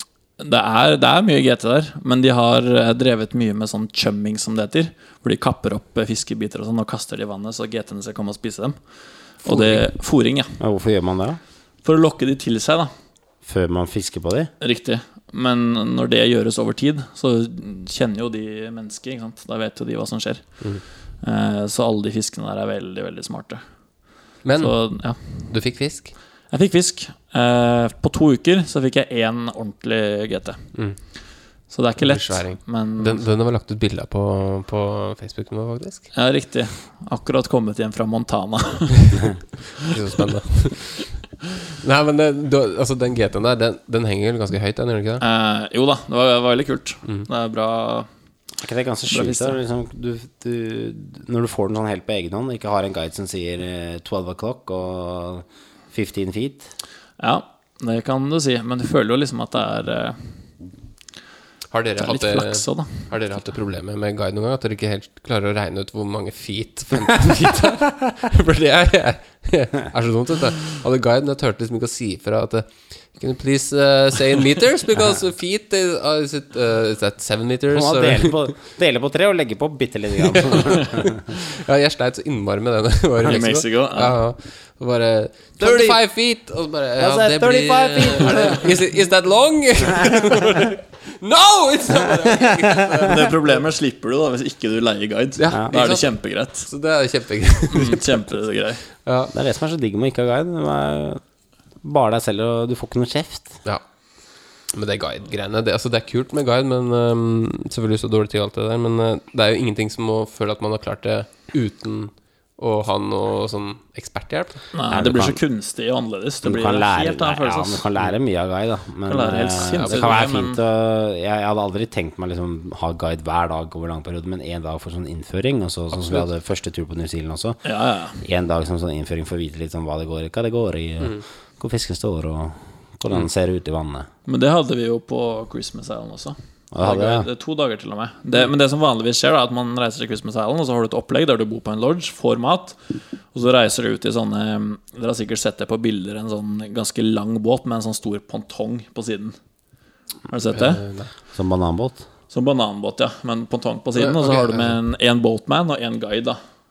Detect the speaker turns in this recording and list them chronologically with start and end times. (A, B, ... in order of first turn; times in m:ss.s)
0:00.4-0:10.6 A
0:09.5-0:09.8 B
0:10.6-0:11.4 B
0:11.8-0:12.9 A
0:13.4-0:14.5 B
0:14.6-0:23.6 A
0:24.4-0:26.2 C
0:24.6-0:25.6 A
0:26.5-0:31.1 A
0:30.7-0:31.0 C
0:31.7-0:33.2 A
0:32.0-0:36.1 C
0:36.1-0:39.3 A
0:39.9-0:41.2 C
0:41.8-0:45.2 C
0:45.2-0:48.1 A
0:48.6-0:56.7 B
0:49.1-0:49.6 A
0:57.2-1:00.6 A
1:01.7-1:18.4 C
1:02.0-1:03.4 A
1:17.7-1:21.1 B
1:20.4-1:33.6 C
1:23.3-1:24.2 A
1:25.6-1:26.1 B
1:27.0-1:28.7 B
1:33.0-1:36.7 A
1:35.4-1:38.3 C
1:37.7-1:38.9 A
1:39.0-1:39.3 C
1:39.3-1:41.2 B
1:41.8-1:43.6 B
1:43.6-1:54.6 C
1:54.7-1:57.9 A
1:54.9-1:55.4 B
1:56.4-2:07.6 B
1:59.1-2:00.6 A
1:59.7-2:00.2 C
2:05.9-2:06.3 C
2:07.6-2:08.2 A
2:08.2-2:14.1 B
2:11.0-2:11.2 C
2:14.3-2:29.4 A
2:16.7-2:17.3 B
2:30.3-2:30.8 A
2:30.5-2:31.1 C
2:31.3-2:32.1 B
2:32.3-2:36.4 A
2:34.0-2:34.8 C